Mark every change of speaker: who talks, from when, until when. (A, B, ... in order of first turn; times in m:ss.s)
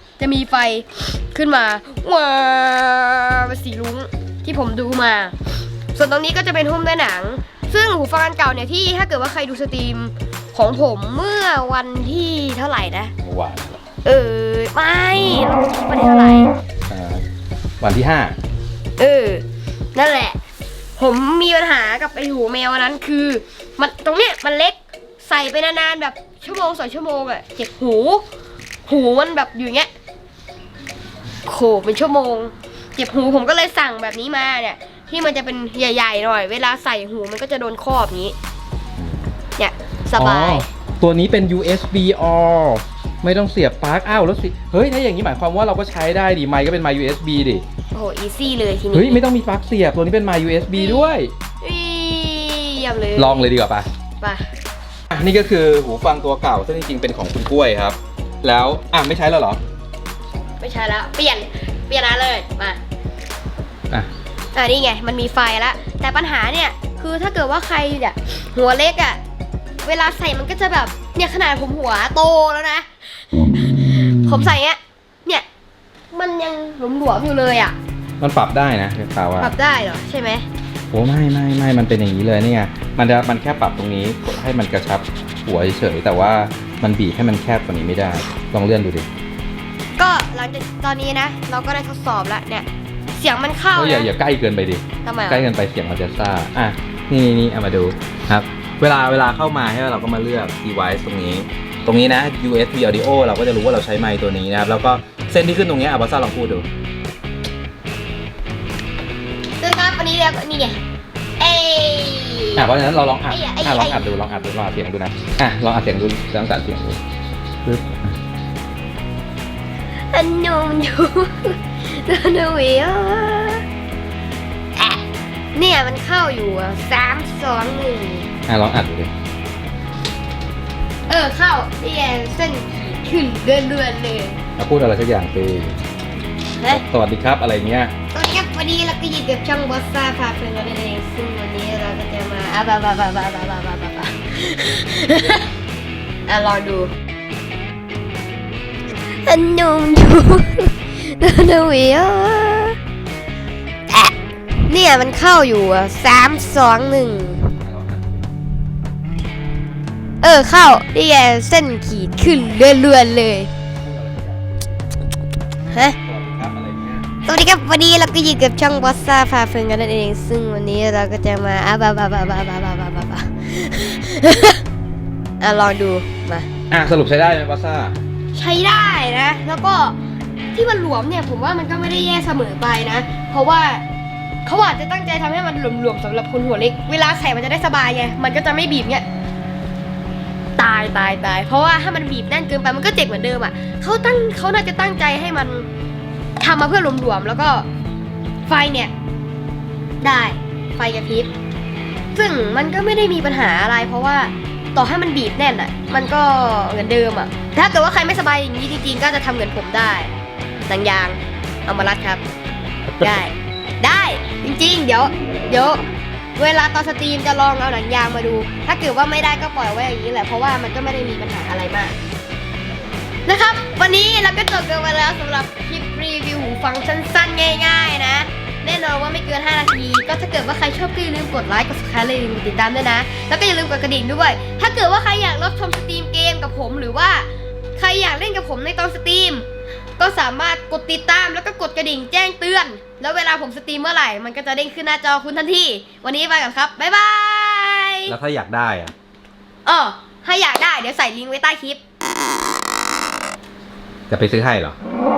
0:00.2-0:05.3 A
0:05.9-0:13.1 A
0:13.2-0:13.8 B
0:14.0-0:16.5 A
0:16.9-0:17.2 B
0:17.8-0:18.4 B
0:19.0-0:20.4 A
0:21.0-0:28.2 A
0:28.8-0:29.9 A
0:31.5-0:38.4 A
0:39.0-0:39.3 B
0:39.6-0:40.7 A
0:40.2-0:47.6 B
0:47.9-0:49.2 A
0:48.9-0:51.3 B
0:50.7-0:51.1 A
0:51.6-0:53.4 A
0:53.2-0:53.9 B
0:55.1-0:59.6 B
1:00.6-1:02.8 A
1:04.5-1:09.2 A
1:09.8-1:15.4 A
1:16.1-1:17.8 A
1:18.2-1:19.5 B
1:19.4-1:20.4 A
1:20.9-1:29.1 B
1:30.0-1:34.1 A
1:33.8-1:46.7 B
1:35.0-1:35.5 A
1:49.6-1:50.8 A
1:51.4-1:52.7 A
1:52.6-1:57.0 B
1:53.3-1:54.0 A
1:57.6-1:58.0 B
2:00.1-2:03.6 A
2:04.8-2:05.0 A
2:05.6-2:08.3 A
2:08.5-2:09.1 B
2:11.1-2:14.4 A
2:14.6-2:15.8 B
2:16.7-2:17.9 B
2:18.1-2:25.5 A
2:26.3-2:26.9 A
2:28.9-2:32.8 A
2:34.6-2:37.5 A
2:37.6-2:38.2 B
2:40.2-2:43.5 A
2:43.8-2:44.4 B
2:45.7-2:46.0 A
2:46.0-2:47.1 B
2:47.2-2:54.6 A
2:55.4-2:56.5 A
2:56.7-2:58.0 B
2:58.3-3:00.0 A
3:00.5-3:03.8 A
3:04.4-3:09.1 A
3:10.6-3:15.7 A
3:16.4-3:17.7 A
3:18.5-3:18.9 A
3:20.0-3:21.3 A
3:22.1-3:30.1 A
3:30.7-3:32.2 A
3:33.0-3:35.8 A
3:36.4-3:41.9 A
3:43.2-3:59.4 A
4:00.0-4:08.1 A
4:08.1-4:08.9 B
4:09.6-4:11.8 A
4:14.1-4:14.8 B